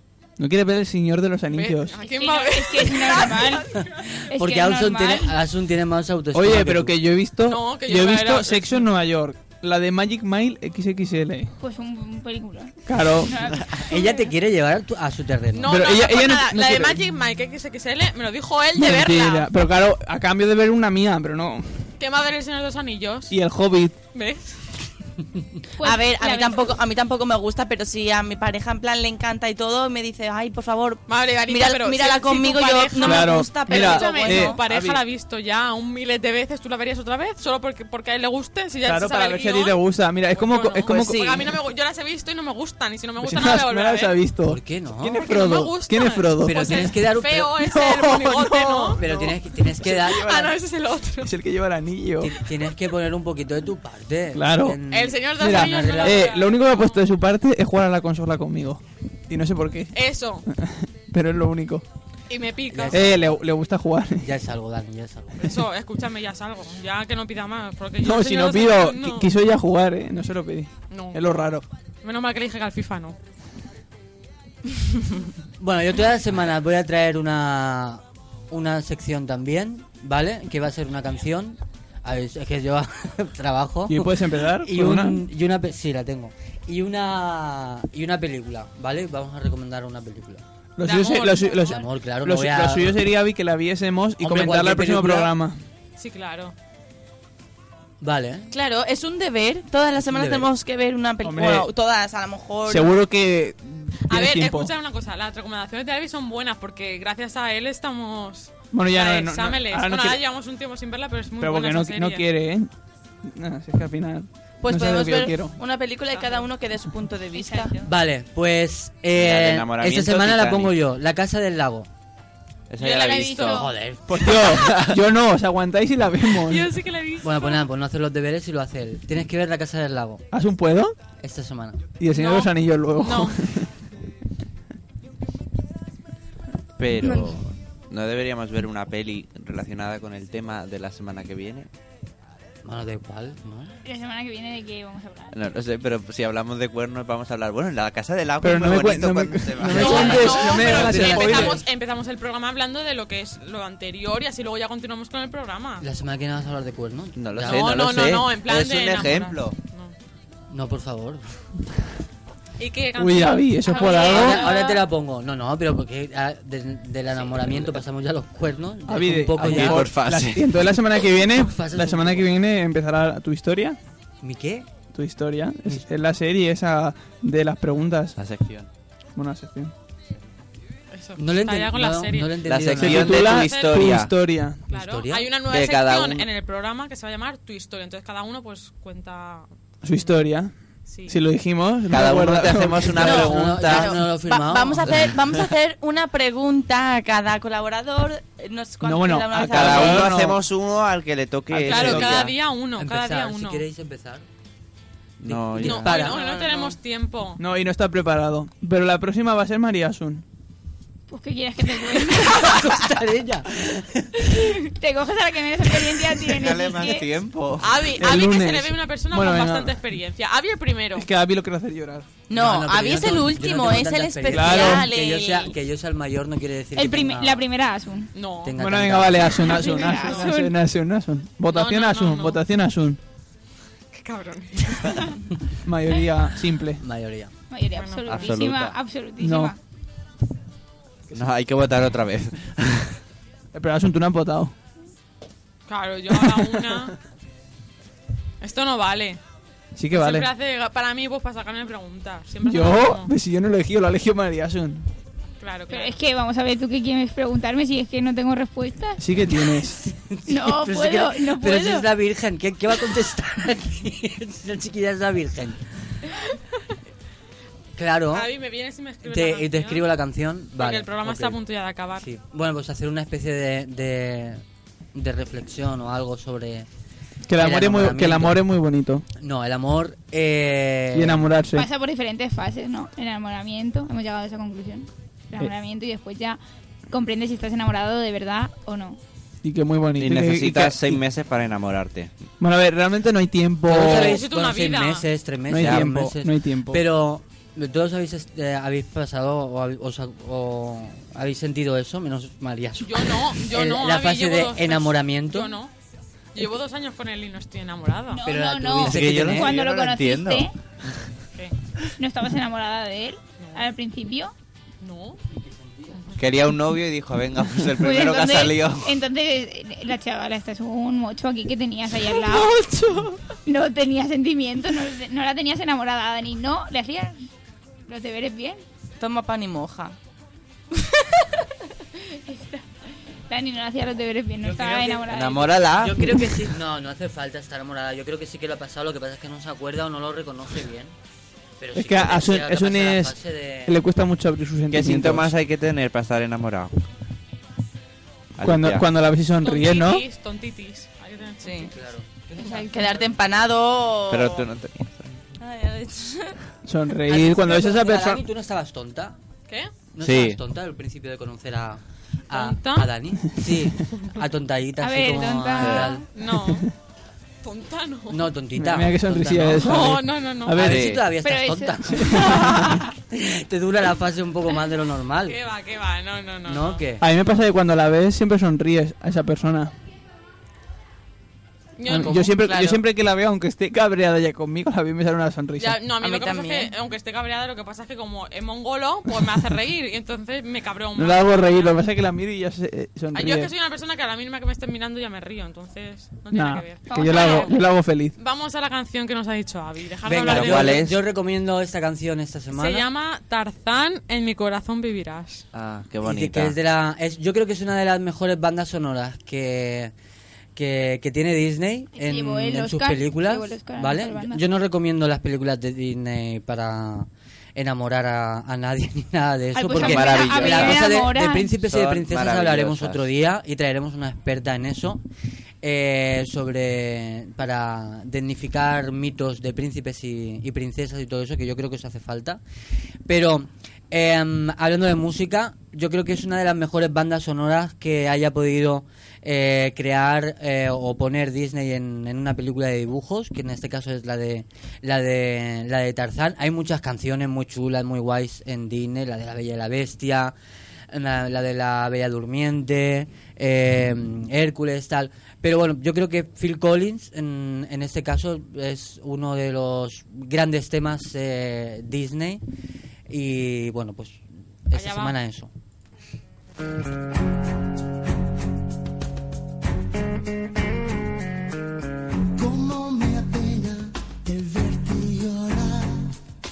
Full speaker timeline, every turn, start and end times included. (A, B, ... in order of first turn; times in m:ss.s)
0:00.4-0:02.0 A
0:01.5-0:03.9 B
0:02.0-0:05.3 C
0:03.8-0:07.0 D
0:06.3-0:11.5 A
0:07.5-0:08.9 B
0:11.6-0:14.3 C
0:12.9-0:13.5 A
0:13.7-0:15.9 D
0:15.5-0:19.5 B
0:15.7-0:17.0 A
0:18.8-0:21.9 A
0:22.0-0:23.4 B
0:23.3-0:24.0 A
0:24.1-0:24.6 B
0:25.8-0:26.8 C
0:25.8-0:34.6 E
0:31.1-0:39.8 B
0:33.0-0:35.0 A
0:38.8-0:41.4 A
0:40.3-0:44.2 B
0:40.9-0:41.5 E
0:43.2-0:46.9 A
0:44.5-0:45.3 D
0:45.2-0:51.3 B
0:46.4-0:47.6 D
0:47.6-0:49.4 A
0:49.0-0:50.5 D
0:51.2-0:52.4 A
0:52.2-0:56.3 D
0:54.4-0:54.8 A
0:54.9-0:57.0 B
0:55.4-0:59.9 A
1:00.0-1:00.5 B
1:00.5-1:01.8 A
1:02.3-1:03.1 B
1:02.7-1:03.4 D
1:02.9-1:04.3 A
1:04.2-1:05.5 D
1:05.4-1:09.3 B
1:08.0-1:11.6 A
1:10.9-1:11.2 B
1:12.0-1:13.2 B
1:15.6-1:30.4 D
1:23.9-1:25.2 A
1:30.8-1:35.6 A
1:30.8-1:31.7 B
1:31.7-1:33.0 D
1:34.2-1:35.3 D
1:36.0-1:36.6 B
1:38.0-1:38.5 D
1:38.5-1:43.0 E
1:40.0-1:40.5 D
1:41.2-1:41.7 A
1:42.7-1:44.7 A
1:44.1-1:52.3 B
1:48.7-1:50.2 A
1:51.4-1:52.7 A
1:53.2-1:55.6 A
1:54.6-1:57.8 E
1:57.4-1:57.7 C
1:57.8-2:01.9 D
1:59.1-2:00.8 F
2:02.7-2:03.6 F
2:02.8-2:03.7 B
2:03.0-2:03.7 C
2:03.5-2:04.3 D
2:04.1-2:06.7 A
2:04.5-2:05.0 F
2:06.3-2:07.6 B
2:07.2-2:10.2 D
2:10.3-2:10.9 A
2:11.2-2:11.8 D
2:12.0-2:13.7 A
2:12.2-2:13.4 B
2:16.8-2:21.7 F
2:22.6-2:23.8 D
2:23.8-2:25.4 C
2:25.3-2:30.3 F
2:28.4-2:31.6 A
2:29.7-2:35.8 B
2:29.8-2:31.6 D
2:35.8-2:38.0 D
2:37.2-2:39.6 F
2:37.4-2:39.9 B
2:40.5-2:41.3 D
2:42.6-2:44.8 B
2:43.0-2:44.5 A
2:43.9-2:49.9 D
2:48.9-2:53.8 A
2:49.4-2:50.5 F
2:51.3-2:52.3 D
2:54.2-2:54.7 D
2:54.9-2:58.2 A
2:58.2-2:58.7 F
2:59.2-2:59.7 A
3:00.9-3:02.4 B
3:01.2-3:03.3 D
3:02.4-3:04.2 F
3:02.8-3:04.6 A
3:03.3-3:03.8 B
3:04.7-3:05.3 D
3:04.7-3:09.5 B
3:05.5-3:06.3 F
3:09.8-3:10.6 A
3:10.9-3:11.2 B
3:11.1-3:13.2 A
3:11.9-3:14.0 F
3:13.0-3:15.1 D
3:13.0-3:20.1 E
3:18.8-3:20.4 A
3:19.4-3:22.3 F
3:21.5-3:24.2 D
3:21.7-3:23.6 B
3:25.2-3:26.0 F
3:25.2-3:26.2 D
3:25.6-3:27.4 B
3:25.9-3:26.8 E
3:27.4-3:30.2 A
3:31.1-3:32.6 C
3:32.1-3:34.5 D
3:34.7-3:37.1 C
3:36.3-3:38.1 F
3:37.6-3:41.1 B
3:38.0-3:39.8 A
3:41.0-3:42.1 A
3:42.3-3:45.5 E
3:42.3-3:47.4 D
3:44.3-3:44.9 A
3:46.8-3:48.1 C
3:48.2-3:48.6 B
3:48.4-3:49.7 D
3:48.6-3:53.0 A
3:49.4-3:50.5 C
3:49.6-3:50.3 B
3:51.5-3:52.4 B
3:53.9-3:55.2 B
3:55.6-3:56.8 A
3:56.8-3:57.3 D
3:57.5-3:59.6 C
3:57.8-3:58.3 B
3:58.1-3:58.8 F
3:59.2-3:59.5 A
4:01.1-4:03.0 F
4:03.5-4:04.5 A
4:05.7-4:06.9 B
4:06.1-4:06.9 A
4:08.4-4:09.2 B
4:09.8-4:10.3 A
4:09.9-4:13.1 B
4:12.4-4:14.9 A
4:15.4-4:15.9 B
4:15.7-4:19.0 C
4:19.0-4:19.8 A
4:19.9-4:25.6 D
4:20.3-4:21.9 C
4:27.8-4:28.3 D
4:28.1-4:29.9 B
4:29.0-4:31.4 D
4:30.6-4:32.1 B
4:32.0-4:34.4 D
4:34.9-4:36.7 D
4:37.3-4:39.0 A
4:37.4-4:38.4 D
4:39.2-4:41.3 D
4:40.9-4:41.7 A
4:41.5-4:49.0 C
4:49.4-4:51.0 A
4:50.0-4:52.1 F
4:52.4-4:54.2 A
4:53.7-5:05.6 D
4:53.8-4:55.1 B
4:55.5-4:56.8 A
4:55.6-4:55.9 F
5:02.8-5:05.7 B
5:06.3-5:08.3 B
5:08.1-5:10.5 C
5:08.2-5:09.5 D
5:08.8-5:10.5 F
5:12.0-5:14.3 C
5:14.8-5:15.2 B
5:15.4-5:16.0 D
5:16.2-5:18.9 F
5:17.8-5:22.5 C
5:23.4-5:27.2 C
5:27.9-5:28.6 C
5:29.0-5:30.0 E
5:32.0-5:32.7 C
5:33.3-5:35.6 C
5:34.4-5:40.9 D
5:35.1-5:36.1 F
5:41.6-5:43.8 D
5:41.8-5:43.1 A
5:43.7-5:45.3 A
5:44.7-5:46.8 F
5:48.4-5:48.9 F
5:48.4-5:50.0 A
5:49.4-5:51.7 B
5:51.4-5:51.7 E
5:51.6-5:53.2 D
5:52.7-5:54.5 E
5:54.1-5:55.2 F
5:55.4-5:56.4 E
5:56.6-5:58.2 A
5:57.1-5:59.2 D
6:00.0-6:06.1 D
6:00.0-6:00.4 F
6:02.3-6:02.9 B
6:04.8-6:06.0 C
6:05.6-6:06.0 F
6:06.1-6:06.7 B
6:06.3-6:06.7 A
6:07.4-6:08.3 B
6:08.1-6:10.0 D
6:08.6-6:11.0 A
6:09.6-6:10.6 B
6:10.6-6:15.4 D
6:10.6-6:11.0 F
6:11.2-6:12.6 C
6:12.0-6:12.9 A
6:15.3-6:16.8 B
6:16.5-6:17.0 D
6:17.0-6:19.7 A
6:21.8-6:22.3 B
6:21.9-6:25.8 A
6:21.9-6:22.8 E
6:25.6-6:31.8 B
6:26.0-6:26.7 E
6:31.0-6:33.5 A
6:33.1-6:37.6 B
6:36.3-6:38.1 A
6:36.9-6:37.6 C
6:38.2-6:40.9 B
6:40.1-6:41.0 F
6:40.2-6:42.9 D
6:42.5-6:45.4 B
6:45.5-6:46.6 F
6:46.0-6:49.9 D
6:50.6-7:05.0 D
6:52.0-6:54.4 C
6:59.6-7:01.5 C
6:59.7-7:00.9 F
7:01.6-7:03.1 F
7:05.6-7:12.4 D
7:13.1-7:30.3 D
7:30.9-7:42.4 D
7:43.1-7:45.5 D
7:44.7-7:45.2 B
7:52.4-7:56.1 G